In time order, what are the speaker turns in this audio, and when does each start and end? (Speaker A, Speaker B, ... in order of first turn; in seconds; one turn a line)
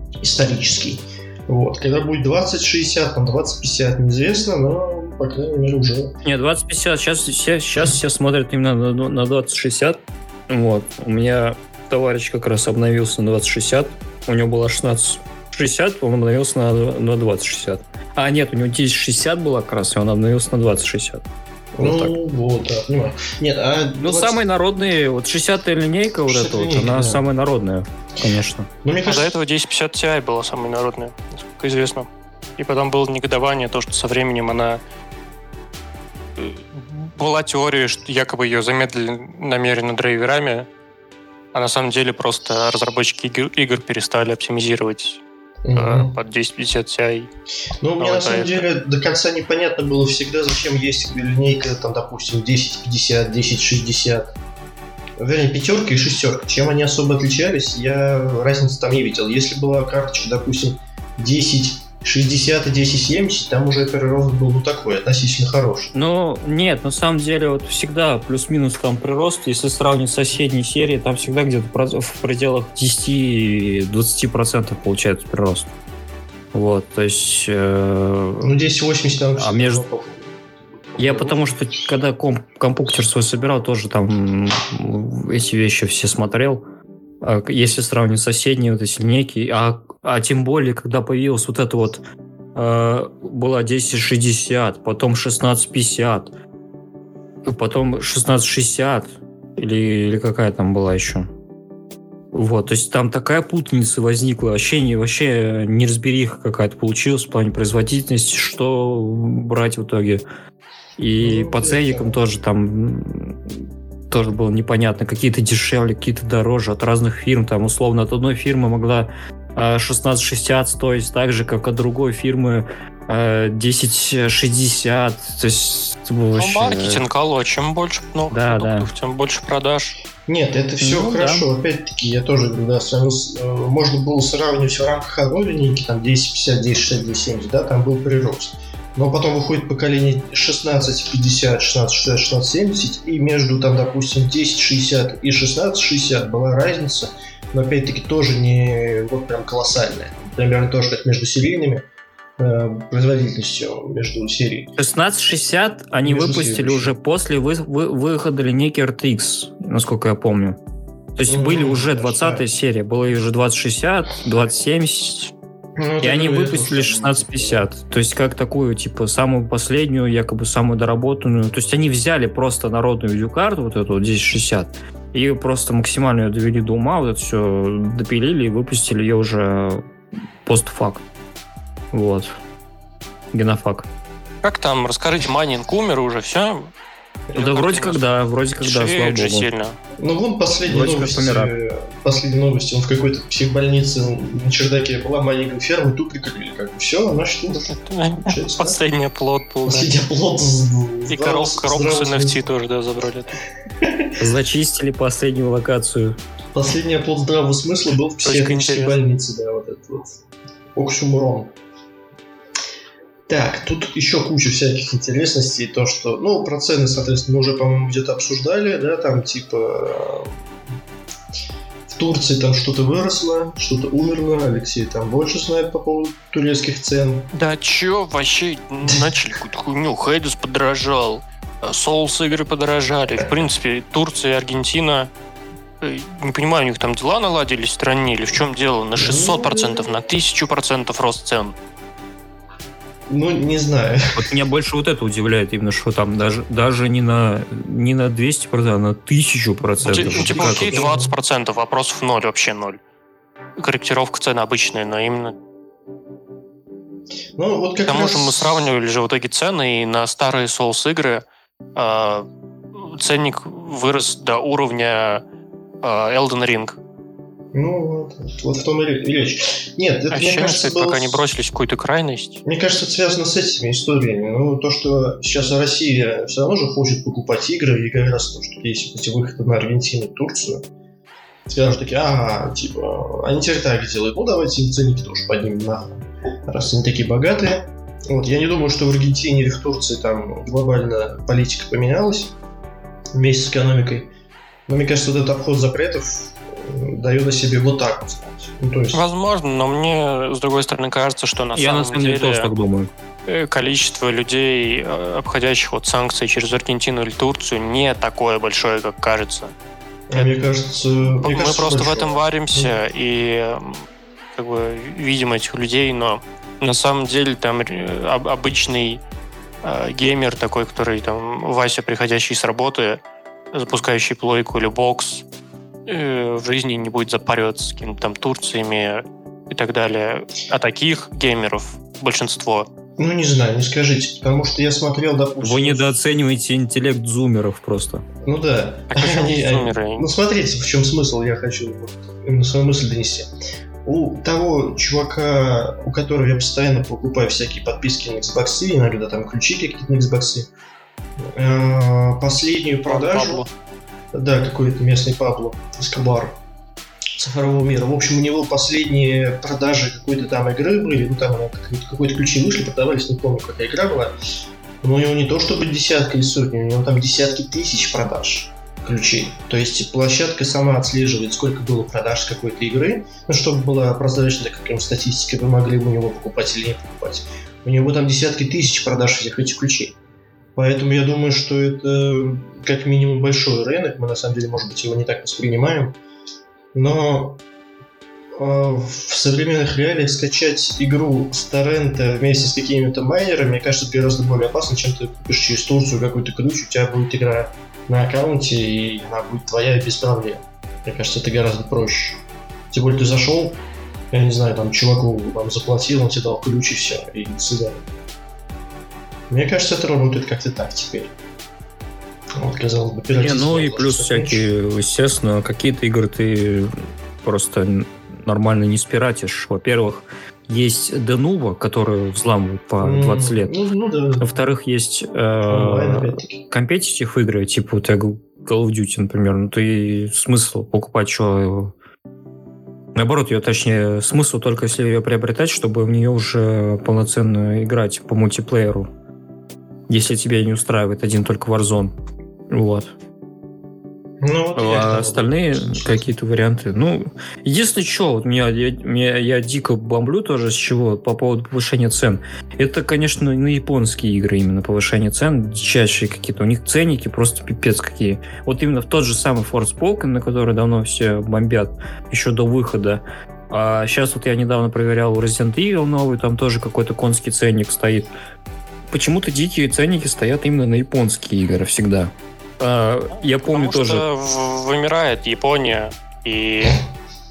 Speaker A: 0.2-6.2
Speaker B: 6.2-21.2
Speaker A: 21.8-24.4
Speaker B: 21.8-22.1
Speaker B: 24.0-28.7
Speaker A: 26.3-27.2
Speaker A: 28.8-29.4
Speaker C: 29.0-34.8
Speaker C: 36.4-40.7
Speaker C: 41.5-45.2
Speaker A: 45.6-46.1
Speaker C: 45.7-47.3
Speaker A: 47.8-54.3
Speaker C: 48.0-48.7
Speaker A: 55.2-65.9
Speaker B: 65.9-75.7
Speaker B: 76.5-78.5
Speaker A: 78.4-81.5
Speaker B: 79.4-79.8
Speaker B: 81.0-86.6
Speaker B: 87.2-92.0
Speaker B: 92.5-96.3
Speaker B: 97.4-101.3
Speaker B: 102.3-110.2
Speaker B: 111.0-127.0
Speaker A: 111.2-112.2
Speaker C: 126.4-130.0
Speaker B: 128.3-128.9
Speaker A: 130.3-151.9
Speaker B: 130.8-131.5
Speaker A: 152.4-154.7
Speaker B: 154.8-160.6
Speaker A: 156.0-156.9
Speaker B: 161.2-165.3
Speaker A: 161.3-162.4
Speaker A: 165.8-167.7
Speaker B: 166.0-179.8
Speaker B: 180.4-181.1
Speaker B: 181.9-182.3
Speaker B: 183.3-183.9
Speaker C: 184.4-186.7
Speaker C: 187.3-188.0
Speaker B: 187.3-189.5
Speaker C: 188.6-189.8
Speaker A: 190.0-197.7
Speaker B: 190.6-191.5
Speaker C: 197.5-199.9
Speaker A: 198.2-198.8
Speaker A: 199.7-202.4
Speaker C: 201.1-203.4
Speaker A: 203.8-204.1
Speaker B: 204.2-206.2
Speaker A: 206.5-210.2
Speaker C: 208.2-209.0
Speaker A: 210.7-211.5
Speaker A: 213.3-220.4
Speaker A: 221.9-227.3
Speaker C: 227.3-235.1
Speaker C: 235.8-241.6
Speaker A: 239.0-239.9
Speaker A: 243.1-244.2
Speaker B: 244.1-250.8
Speaker A: 249.8-251.1
Speaker C: 249.8-252.8
Speaker C: 253.6-255.4
Speaker A: 257.4-258.7
Speaker C: 257.9-265.2
Speaker C: 265.8-266.8
Speaker A: 267.5-271.2
Speaker C: 270.1-272.4
Speaker A: 272.4-280.6
Speaker A: 281.5-292.4
Speaker A: 293.1-294.1
Speaker A: 294.7-299.0
Speaker C: 298.9-302.5
Speaker B: 301.6-302.9
Speaker C: 303.2-309.5
Speaker A: 310.1-312.7
Speaker C: 311.2-319.0
Speaker C: 319.6-325.2
Speaker C: 325.9-332.7
Speaker A: 333.0-336.0
Speaker B: 335.4-338.0
Speaker A: 338.2-343.3
Speaker C: 338.9-340.1
Speaker A: 343.8-350.5
Speaker A: 351.2-353.4
Speaker C: 352.9-353.5
Speaker A: 354.1-356.4
Speaker A: 357.2-364.1
Speaker A: 364.8-380.0
Speaker A: 380.6-386.0
Speaker A: 386.7-387.4
Speaker A: 388.4-407.8
Speaker A: 409.3-411.1
Speaker A: 412.4-414.5
Speaker B: 413.1-423.5
Speaker A: 422.8-424.3
Speaker B: 424.2-431.7
Speaker A: 425.5-426.4
Speaker B: 432.9-438.9
Speaker B: 439.9-441.9
Speaker B: 442.5-442.9
Speaker A: 444.2-446.1
Speaker B: 444.5-468.1
Speaker B: 468.9-474.0
Speaker C: 473.4-476.8